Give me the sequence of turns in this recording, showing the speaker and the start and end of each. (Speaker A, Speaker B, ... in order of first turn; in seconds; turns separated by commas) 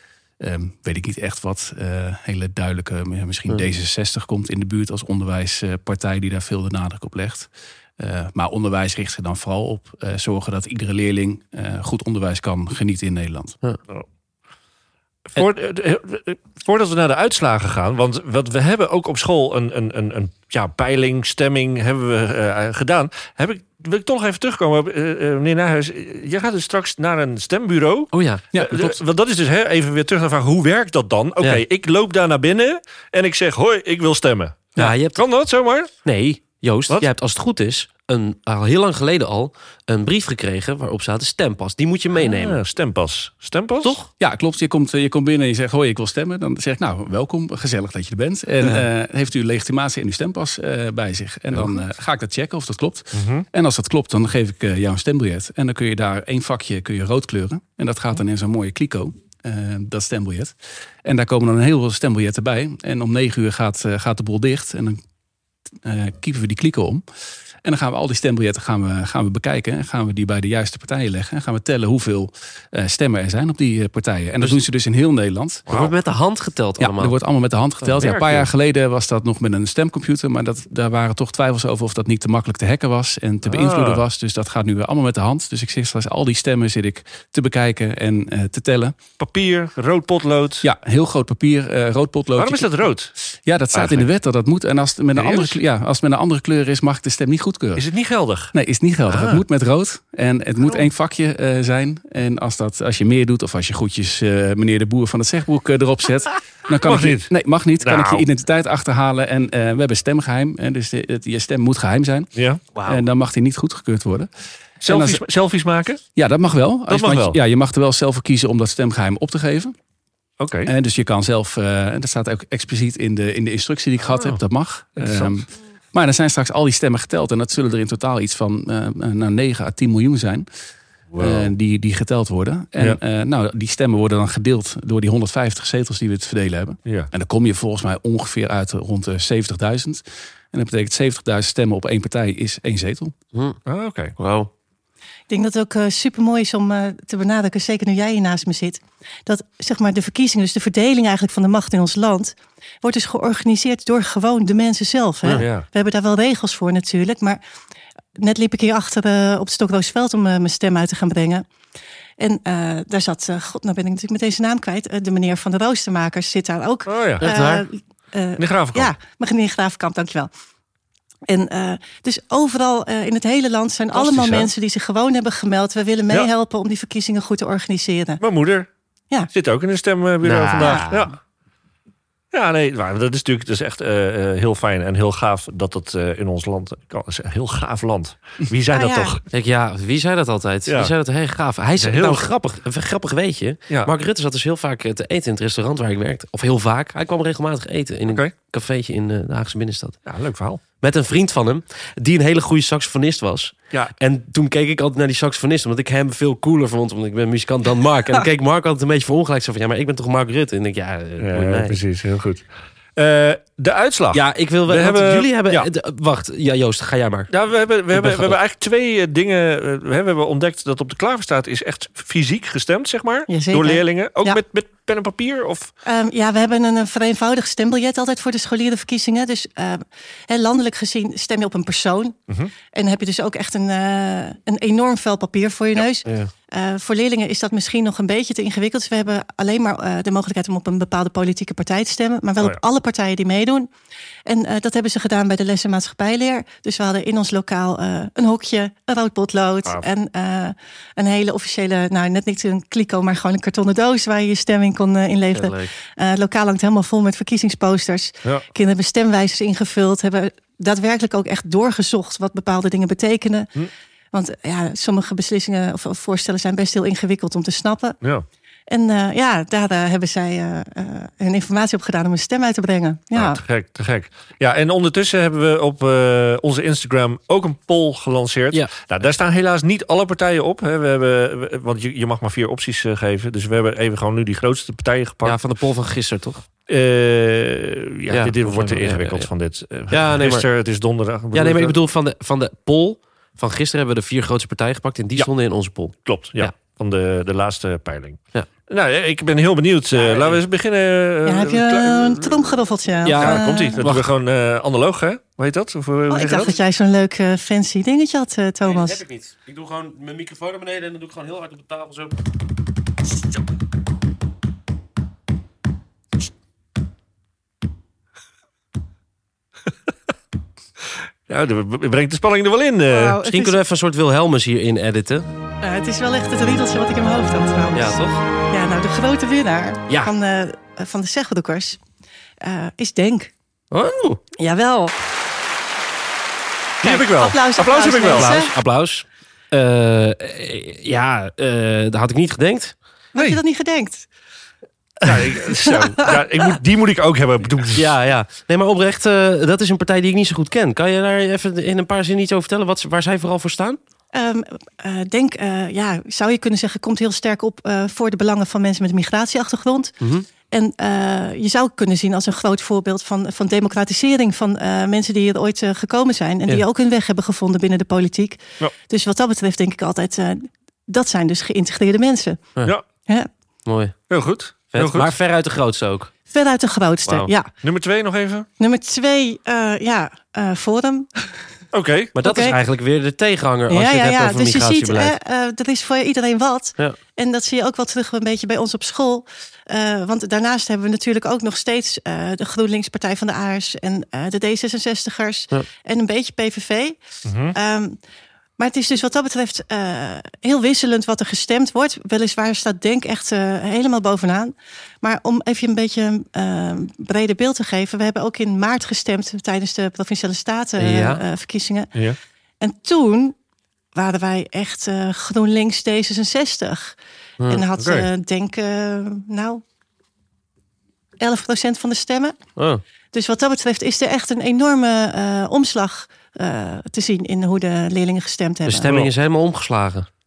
Speaker A: 0.4-13.6, Speaker B: 15.3-35.9, Speaker C: 28.1-28.4, Speaker A: 28.5-28.9, Speaker C: 34.8-35.2, Speaker C: 36.0-42.6, Speaker B: 42.2-44.0, Speaker C: 43.8-44.1, Speaker A: 44.2-65.0, Speaker B: 53.1-53.5, Speaker A: 65.8-67.0, Speaker A: 67.6-75.7, Speaker B: 75.7-76.0, Speaker C: 75.7-77.2, Speaker A: 76.8-89.0, Speaker C: 77.8-78.2, Speaker B: 78.0-78.4, Speaker B: 83.5-84.0, Speaker B: 89.2-90.7, Speaker A: 90.6-92.8, Speaker B: 92.4-93.1, Speaker A: 93.5-97.8, Speaker B: 93.7-94.1, Speaker B: 95.2-95.6, Speaker B: 97.8-98.5, Speaker A: 98.5-112.3, Speaker B: 99.1-99.4, Speaker B: 106.8-107.3, Speaker B: 107.8-108.2, Speaker B: 112.3-112.7, Speaker C: 112.8-113.0, Speaker A: 112.8-114.3, Speaker B: 114.8-116.0, Speaker A: 114.8-115.2, Speaker A: 116.2-119.7, Speaker B: 116.9-117.4, Speaker B: 120.4-120.7, Speaker A: 120.7-130.5, Speaker B: 124.0-124.4, Speaker B: 125.0-125.3, Speaker B: 131.1-131.5, Speaker A: 131.2-143.1, Speaker C: 143.3-143.6, Speaker B: 143.7-144.2, Speaker C: 144.2-144.5, Speaker D: 145.3-157.4, Speaker B: 155.4-155.7, Speaker D: 158.2-161.4, Speaker D: 162.2-170.3, Speaker B: 166.9-167.3, Speaker C: 167.2-167.7, Speaker B: 168.4-168.9, Speaker D: 171.3-178.2, Speaker B: 173.9-174.5, Speaker B: 178.2-178.7, Speaker B: 179.3-181.1, Speaker C: 180.2-181.1, Speaker D: 180.6-180.9, Speaker B: 182.3-189.2, Speaker D: 188.7-189.2, Speaker C: 189.3-200.0, Speaker B: 190.7-190.9, Speaker B: 191.8-192.2, Speaker B: 200.1-200.6, Speaker C: 200.8-211.8, Speaker B: 211.2-215.7, Speaker C: 214.1-217.3, Speaker B: 217.3-225.7, Speaker C: 217.9-218.4, Speaker D: 223.3-224.4, Speaker D: 225.8-232.2, Speaker D: 232.7-243.7, Speaker C: 236.1-236.3, Speaker D: 244.3-263.5, Speaker C: 255.3-255.7, Speaker D: 264.1-268.0, Speaker D: 268.7-273.4, Speaker B: 273.1-285.4, Speaker C: 285.2-286.4, Speaker B: 286.7-291.8, Speaker C: 288.1-289.3, Speaker C: 289.9-290.5, Speaker C: 291.3-296.5, Speaker B: 296.0-306.6, Speaker C: 299.9-300.4, Speaker D: 301.3-303.8, Speaker C: 303.0-304.1, Speaker D: 306.1-309.0, Speaker C: 308.6-312.2, Speaker B: 321.3-323.2, Speaker D: 322.9-323.6, Speaker C: 323.2-325.3, Speaker D: 325.6-331.8, Speaker C: 327.7-328.2, Speaker D: 332.4-333.3, Speaker C: 333.7-334.2, Speaker D: 334.4-334.9, Speaker B: 336.8-338.4, Speaker D: 336.8-338.5, Speaker C: 338.0-342.8, Speaker D: 343.1-344.1, Speaker B: 345.0-347.9, Speaker D: 345.4-346.2, Speaker C: 347.7-353.8, Speaker D: 354.1-359.9, Speaker C: 360.0-360.3, Speaker D: 360.5-372.5, Speaker C: 373.7-373.9, Speaker B: 374.1-375.1, Speaker C: 374.7-376.1, Speaker D: 376.3-377.5, Speaker C: 377.1-377.3, Speaker B: 377.6-378.5, Speaker D: 378.6-381.2, Speaker B: 381.7-382.1, Speaker C: 382.1-385.1, Speaker D: 382.2-382.6, Speaker D: 383.7-397.0, Speaker B: 397.2-397.6, Speaker D: 397.5-398.0, Speaker D: 398.6-411.9, Speaker C: 410.8-411.2, Speaker D: 412.6-413.4, Speaker D: 413.9-417.0, Speaker C: 417.4-417.6, Speaker D: 417.5-419.6, Speaker B: 417.8-418.1, Speaker D: 421.2-422.4, Speaker C: 422.6-422.8, Speaker D: 423.1-428.9, Speaker C: 428.7-430.1